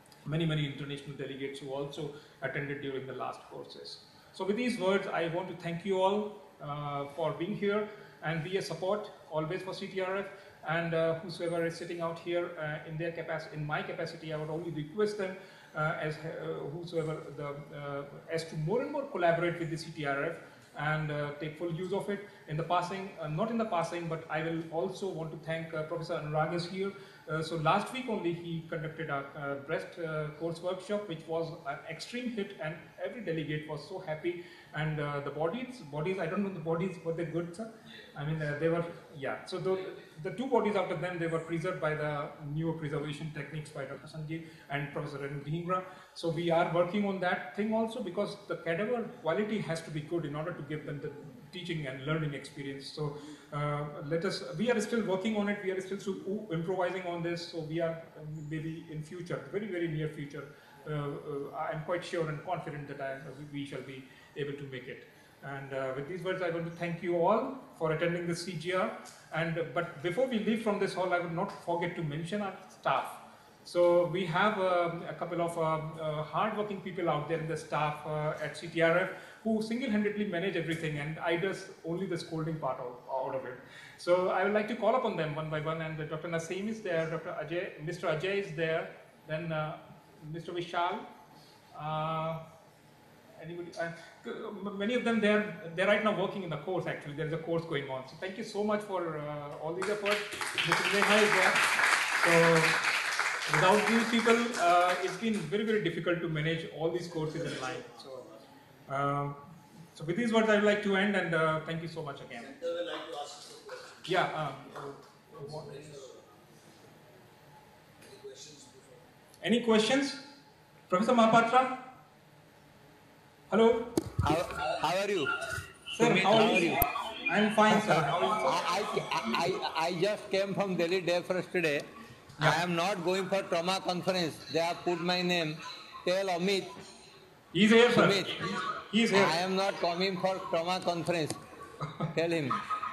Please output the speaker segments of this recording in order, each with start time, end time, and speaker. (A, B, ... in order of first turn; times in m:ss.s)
0:00.2-1:31.1 A
1:31.7-1:32.4 A
1:33.4-1:42.9 A
1:43.5-1:48.3 A
1:47.1-1:48.3 B
1:48.9-1:49.4 A
1:50.0-1:52.5 A
1:52.3-1:54.0 B
1:54.0-1:55.7 A
1:55.3-1:56.4 B
1:58.0-1:59.0 B
1:59.4-2:00.2 A
2:00.9-2:01.8 A
2:03.5-2:03.9 A
2:04.2-2:05.3 C
2:06.0-2:08.4 A
2:06.0-2:06.8 C
2:07.7-2:11.8 C
2:12.4-2:16.7 C
2:17.5-2:19.4 A
2:17.9-2:18.4 C
2:19.1-2:21.4 C
2:22.1-2:22.6 C